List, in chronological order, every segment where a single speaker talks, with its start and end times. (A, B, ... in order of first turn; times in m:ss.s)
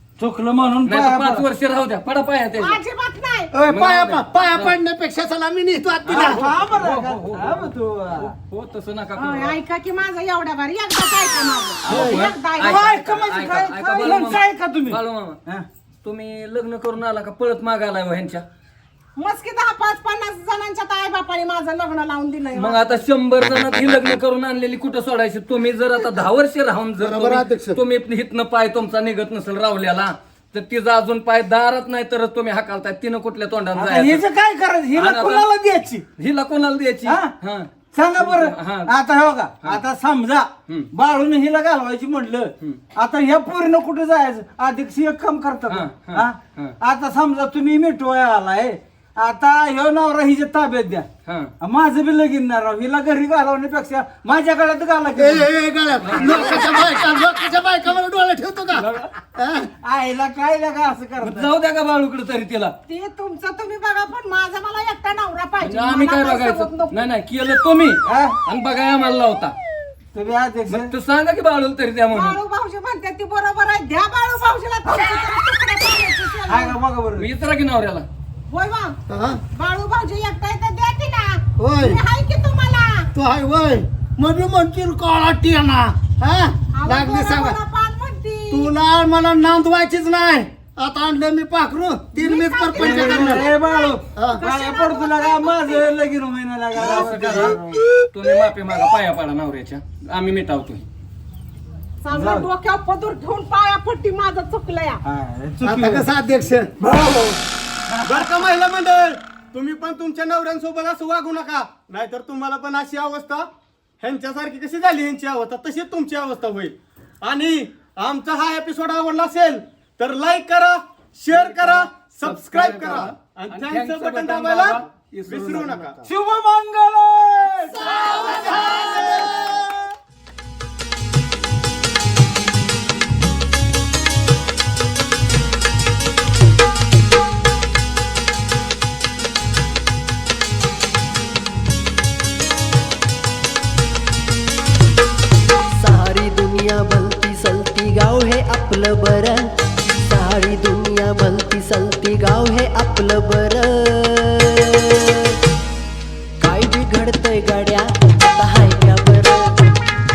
0:00.2-0:01.5 A
0:00.8-0:02.8 B
0:02.6-0:03.5 C
0:03.5-0:06.4 D
0:03.7-0:04.8 B
0:06.0-0:09.6 B
0:06.1-0:08.3 A
0:09.2-0:12.9 C
0:11.9-0:15.4 B
0:11.9-0:15.7 A
0:16.0-0:18.4 B
0:19.2-0:23.0 C
0:22.6-0:34.2 B
0:27.0-0:27.8 D
0:33.8-0:36.0 A
0:35.0-0:35.5 B
0:36.2-0:38.9 B
0:37.0-0:37.3 A
0:37.9-0:51.1 A
0:45.7-0:46.8 B
0:51.3-0:51.5 B
0:51.6-0:55.5 A
0:55.2-0:59.7 D
0:56.0-0:56.8 B
0:58.8-0:59.1 B
0:59.8-1:01.5 A
1:01.2-1:02.7 B
1:02.9-1:06.9 C
1:05.6-1:09.5 B
1:08.0-1:08.4 A
1:10.1-1:10.9 A
1:10.7-1:12.4 B
1:12.1-1:16.8 C
1:16.5-1:17.3 A
1:17.2-1:18.1 B
1:18.5-1:19.0 C
1:19.1-1:19.4 D
1:19.6-1:23.1 C
1:21.6-1:22.0 D
1:23.1-1:27.6 D
1:26.8-1:28.7 C
1:28.5-1:33.5 D
1:32.2-1:35.9 C
1:32.8-1:37.8 A
1:36.8-1:40.8 B
1:42.0-1:45.0 C
1:42.1-1:42.5 A
1:45.0-1:46.1 A
1:45.6-1:46.7 D
1:46.8-1:48.3 A
1:48.1-1:53.5 E
1:54.0-2:06.0 E
2:01.3-2:06.0 B
2:06.0-2:09.3 A
2:07.7-2:09.7 D
2:25.8-2:29.4 F
2:30.1-2:34.8 F
2:36.4-2:39.7 F